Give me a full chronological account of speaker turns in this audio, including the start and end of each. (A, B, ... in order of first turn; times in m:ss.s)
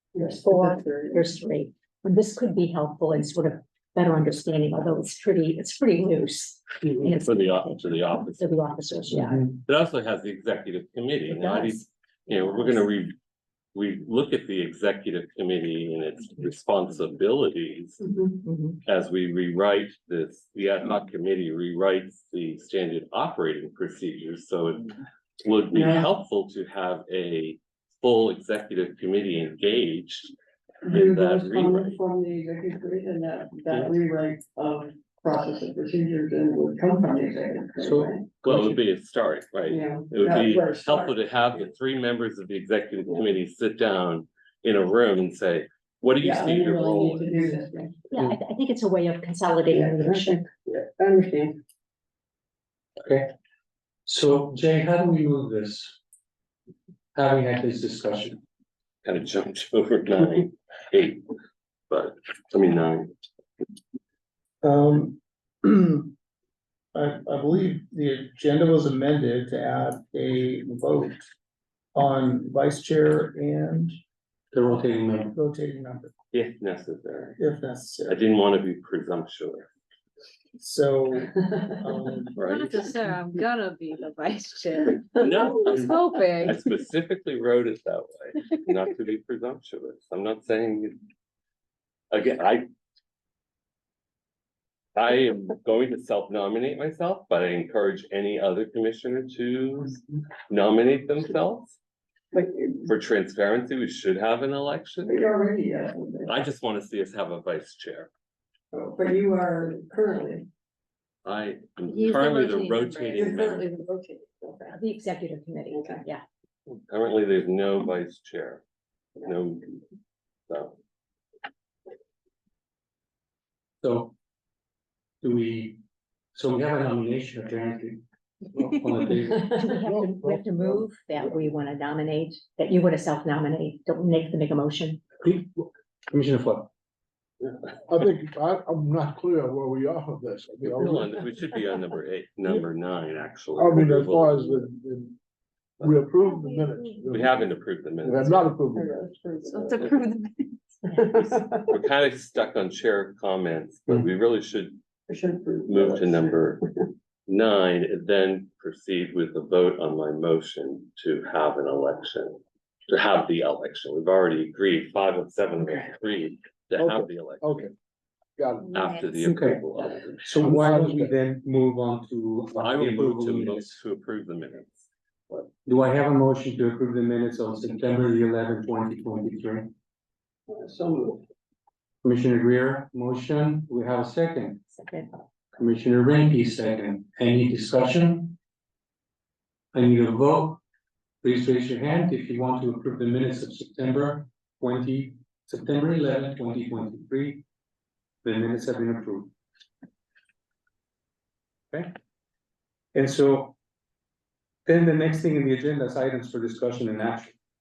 0:00.2-0:01.3 A
0:00.2-0:09.6 B
0:07.0-0:08.7 C
0:09.6-0:13.2 C
0:11.3-0:12.8 B
0:13.8-0:18.0 C
0:18.0-0:18.4 A
0:18.4-0:18.8 B
0:18.9-0:30.3 C
0:25.7-0:26.1 A
0:30.8-0:38.3 A
0:30.9-0:32.0 C
0:37.8-0:38.8 D
0:38.4-0:47.4 C
0:39.7-0:41.2 A
0:46.2-0:48.1 A
0:48.1-0:50.4 B
0:49.7-0:51.6 A
0:54.1-0:56.0 D
0:57.1-0:58.4 D
0:59.0-1:01.2 C
1:01.9-1:03.1 C
1:04.6-1:06.1 E
1:06.9-1:11.2 E
1:12.0-1:14.0 E
1:14.5-1:15.3 D
1:15.3-1:16.1 E
1:16.3-1:17.4 C
1:17.4-1:18.2 E
1:18.1-1:19.7 C
1:20.6-1:22.4 E
1:22.4-1:22.8 C
1:22.4-1:26.6 F
1:25.1-1:31.0 C
1:32.1-1:32.7 C
1:35.0-1:41.8 C
1:42.3-1:42.9 A
1:42.9-1:45.3 C
1:45.1-1:46.3 A
1:46.3-1:48.1 C
1:48.7-1:50.5 A
1:51.2-1:53.6 C
1:51.9-1:53.3 F
1:53.1-1:54.8 A
1:54.7-1:56.2 B
1:55.7-1:56.0 A
1:56.7-1:58.6 C
1:59.2-1:59.8 C
2:00.5-2:00.8 C
2:03.8-2:04.1 D
2:05.2-2:05.8 D
2:06.4-2:08.0 D
2:08.7-2:09.6 D
2:09.5-2:15.1 B
2:09.7-2:11.4 G
2:15.2-2:16.7 D
2:17.9-2:21.2 G
2:20.6-2:24.6 C
2:23.6-2:25.2 G
2:25.8-2:27.4 G
2:27.1-2:28.6 C
2:28.0-2:28.9 G
2:28.7-2:30.2 A
2:29.6-2:30.2 F
2:30.9-2:31.7 A
2:31.0-2:34.8 C
2:35.1-2:36.8 A
2:35.7-2:36.6 C
2:37.3-2:47.6 C
2:46.8-2:47.7 G
2:48.4-2:48.8 G
2:48.7-2:49.2 F
2:48.7-2:50.3 C
2:49.2-2:49.6 D
2:50.2-2:53.8 D
2:50.4-2:51.2 G
2:52.6-2:54.9 C
2:55.6-2:59.7 D
3:00.5-3:01.2 A
3:02.0-3:04.6 D
3:04.7-3:05.2 B
3:05.6-3:08.4 D
3:09.7-3:10.6 D
3:11.2-3:17.4 D
3:18.2-3:19.3 D
3:22.9-3:23.6 D
3:24.7-3:27.4 D